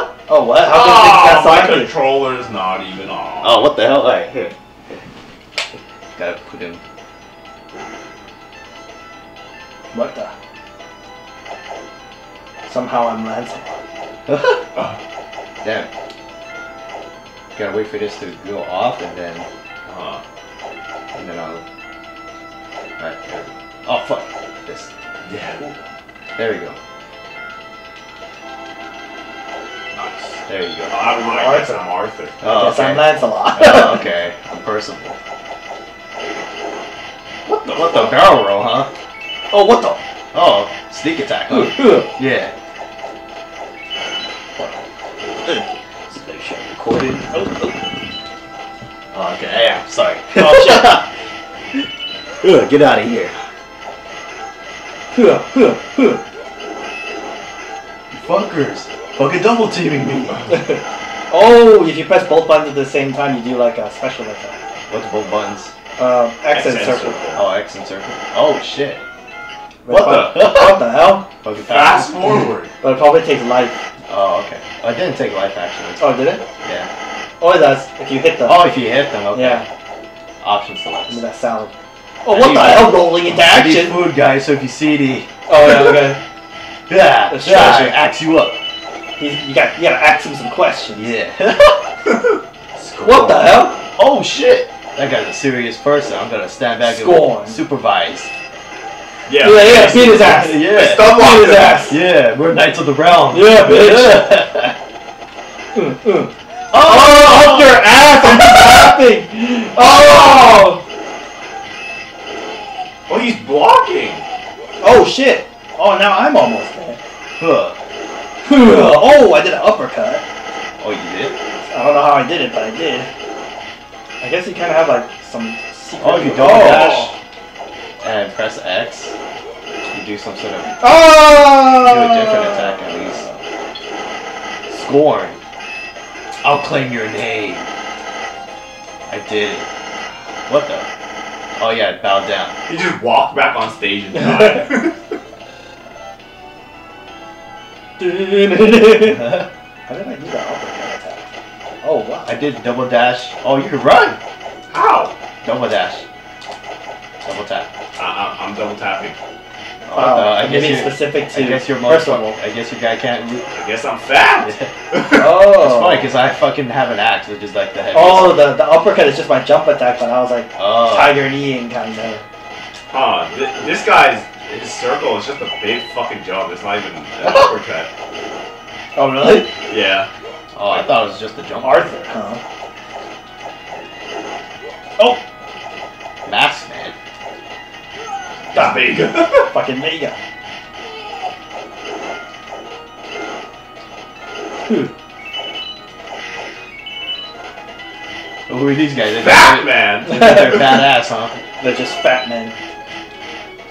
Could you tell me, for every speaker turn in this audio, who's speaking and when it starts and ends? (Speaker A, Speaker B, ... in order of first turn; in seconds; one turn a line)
Speaker A: 0.3-1.9
Speaker B: 0.6-3.6
Speaker C: 3.4-4.5
Speaker C: 6.2-6.8
Speaker A: 9.9-10.3
Speaker A: 12.7-13.8
Speaker C: 14.3-14.7
Speaker C: 15.6-15.9
Speaker C: 17.6-19.5
Speaker B: 19.9-20.2
Speaker C: 21.1-21.6
Speaker C: 23.0-24.9
Speaker B: 25.2-25.7
Speaker C: 26.4-26.8
Speaker B: 29.9-32.4
Speaker C: 30.5-31.0
Speaker A: 31.1-31.9
Speaker C: 32.4-35.2
Speaker A: 32.5-34.1
Speaker A: 37.5-38.2
Speaker C: 37.7-38.9
Speaker A: 39.5-40.0
Speaker C: 40.3-42.5
Speaker A: 41.5-42.1
Speaker A: 46.1-47.8
Speaker C: 49.1-51.1
Speaker A: 50.4-51.0
Speaker C: 52.4-53.4
Speaker A: 55.1-56.2
Speaker C: 58.1-60.5
Speaker A: 60.5-64.6
Speaker C: 64.9-65.7
Speaker A: 66.0-67.2
Speaker B: 66.5-67.4
Speaker C: 67.3-69.0
Speaker A: 69.8-71.3
Speaker C: 69.9-70.9
Speaker C: 71.4-72.3
Speaker B: 71.6-72.7
Speaker A: 72.8-73.8
Speaker C: 74.1-76.9
Speaker A: 76.0-76.4
Speaker A: 77.4-78.7
Speaker C: 78.4-79.7
Speaker A: 79.3-79.7
Speaker C: 80.4-81.2
Speaker A: 81.1-84.0
Speaker C: 82.3-86.0
Speaker A: 85.5-86.2
Speaker C: 86.9-88.6
Speaker A: 87.3-88.0
Speaker A: 89.2-91.2
Speaker C: 90.9-91.8
Speaker B: 92.8-93.6
Speaker A: 93.0-93.8
Speaker C: 94.0-98.3
Speaker A: 96.8-97.6
Speaker B: 99.3-101.9
Speaker A: 99.4-102.0
Speaker C: 100.1-101.2
Speaker C: 101.9-104.8
Speaker A: 103.3-104.4
Speaker A: 105.7-110.8
Speaker C: 106.7-107.8
Speaker B: 109.8-110.8
Speaker B: 113.1-114.2
Speaker A: 114.8-117.0
Speaker C: 117.4-117.8
Speaker A: 118.4-120.2
Speaker C: 120.8-121.4
Speaker A: 121.6-123.1
Speaker A: 124.2-127.1
Speaker C: 126.0-127.1
Speaker B: 126.4-127.1
Speaker C: 128.0-129.1
Speaker C: 129.9-130.7
Speaker A: 130.8-133.3
Speaker C: 131.8-133.3
Speaker C: 134.7-135.4
Speaker C: 136.4-137.7
Speaker C: 139.1-139.7
Speaker C: 140.5-140.9
Speaker C: 141.6-142.6
Speaker B: 142.7-145.1
Speaker A: 144.1-144.7
Speaker A: 148.0-151.3
Speaker A: 151.8-152.4
Speaker C: 152.3-154.2
Speaker B: 154.7-155.2
Speaker C: 155.4-156.1
Speaker C: 157.2-157.7
Speaker B: 158.0-159.2
Speaker C: 159.9-163.5
Speaker A: 159.9-162.4
Speaker B: 163.5-165.3
Speaker C: 164.4-164.7
Speaker A: 165.1-166.1
Speaker C: 165.3-168.5
Speaker A: 167.9-172.2
Speaker C: 170.6-171.2
Speaker B: 172.9-177.9
Speaker A: 178.9-179.5
Speaker B: 179.7-180.1
Speaker C: 180.6-181.9
Speaker B: 180.6-180.9
Speaker A: 181.6-182.4
Speaker C: 186.2-186.9
Speaker B: 188.5-189.5
Speaker A: 188.5-190.2
Speaker A: 194.7-194.9
Speaker C: 198.5-201.3
Speaker B: 199.1-200.2
Speaker A: 200.1-200.9
Speaker A: 201.6-202.6